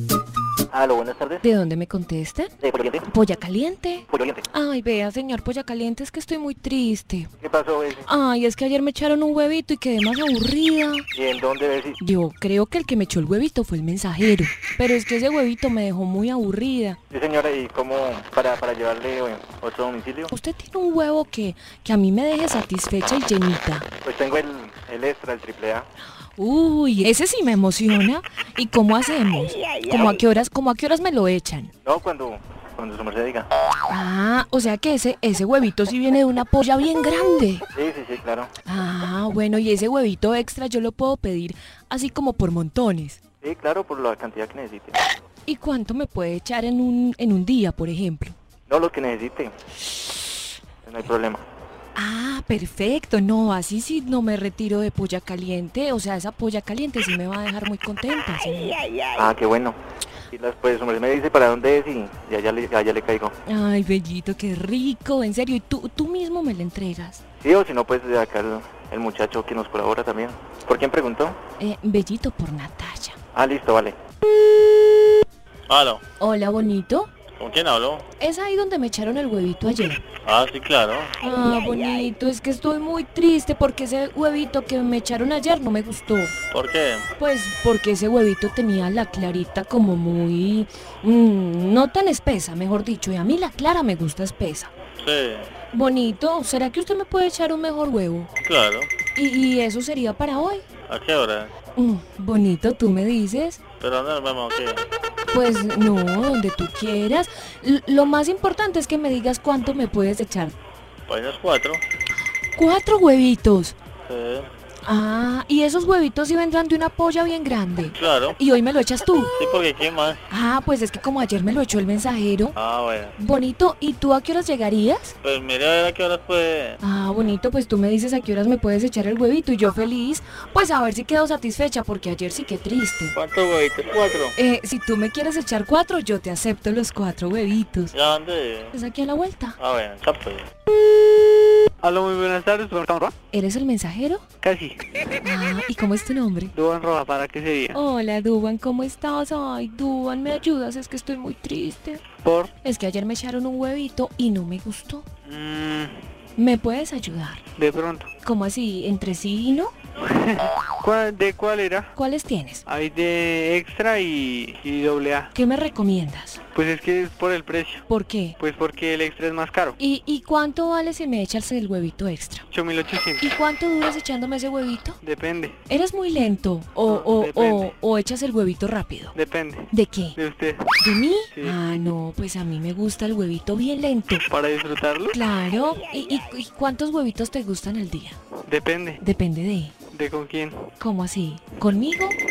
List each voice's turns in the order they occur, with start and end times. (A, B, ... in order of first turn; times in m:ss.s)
0:00.7-0:01.4 A
0:01.4-0:02.5 B
0:02.6-0:03.0 A
0:03.1-0:07.3 B
0:04.1-0:04.4 A
0:07.4-0:08.1 A
0:08.0-0:11.0 B
0:11.1-0:12.0 A
0:12.0-0:17.0 B
0:17.1-0:20.3 A
0:20.3-0:23.9 B
0:24.0-0:25.8 A
0:26.4-0:31.7 B
0:31.8-0:33.5 A
0:33.9-0:37.6 B
0:37.7-0:38.5 A
0:38.6-0:43.2 B
0:43.4-0:45.0 A
0:45.4-0:48.4 B
0:48.7-0:49.5 A
0:50.8-0:51.4 A
0:52.0-0:58.8 B
0:59.1-0:59.8 A
1:00.3-1:03.3 A
1:03.4-1:07.2 B
1:07.4-1:11.4 A
1:11.6-1:13.2 B
1:13.3-1:14.0 A
1:15.7-1:16.0 C
1:16.2-1:17.1 B
1:17.4-1:18.0 C
1:18.2-1:20.0 B
1:20.2-1:21.1 C
1:21.2-1:26.3 B
1:26.5-1:27.0 C
1:27.2-1:34.7 B
1:35.0-1:35.5 C
1:35.7-1:38.3 B
1:38.4-1:38.9 C
1:39.1-1:40.6 B
1:40.9-1:41.5 C
1:41.8-1:43.6 B
1:43.8-1:44.8 C
1:45.3-1:50.6 B
1:51.1-1:51.8 C
1:52.5-1:53.7 B
1:54.1-1:54.5 C
1:54.8-1:59.3 B
1:57.9-1:58.4 C
1:59.4-2:00.2 C
2:00.3-2:02.6 B
2:02.6-2:03.1 C
2:03.2-2:05.1 B
2:05.2-2:06.8 C
2:06.8-2:13.1 B
2:13.1-2:14.3 C
2:14.4-2:17.9 B
2:17.9-2:18.7 C
2:18.7-2:19.6 B
2:19.6-2:20.5 C
2:21.8-2:23.1 D
2:23.3-2:24.2 B
2:24.4-2:24.8 D
2:25.2-2:26.5 B
2:26.5-2:27.8 D
2:27.7-2:32.0 B
2:32.2-2:32.5 D
2:32.6-2:35.0 B
2:35.2-2:36.0 D
2:36.4-2:37.4 B
2:37.6-2:38.1 D
2:38.2-2:39.7 B
2:40.0-2:41.9 D
2:41.9-2:42.6 B
2:42.7-2:45.3 D
2:45.3-2:46.4 B
2:46.5-2:47.9 D
2:47.9-2:48.4 B
2:48.4-2:49.8 D
2:49.8-2:52.4 B
2:52.5-2:53.3 D
2:53.2-2:55.0 B
2:55.0-2:55.6 D
2:55.7-2:59.1 B
2:56.8-2:57.7 D
2:59.1-3:01.6 D
2:59.7-3:00.2 B
3:00.8-3:04.2 B
3:04.3-3:05.2 D
3:05.1-3:08.2 B
3:08.4-3:09.0 D
3:09.0-3:09.7 B
3:09.9-3:10.7 D
3:10.8-3:12.2 B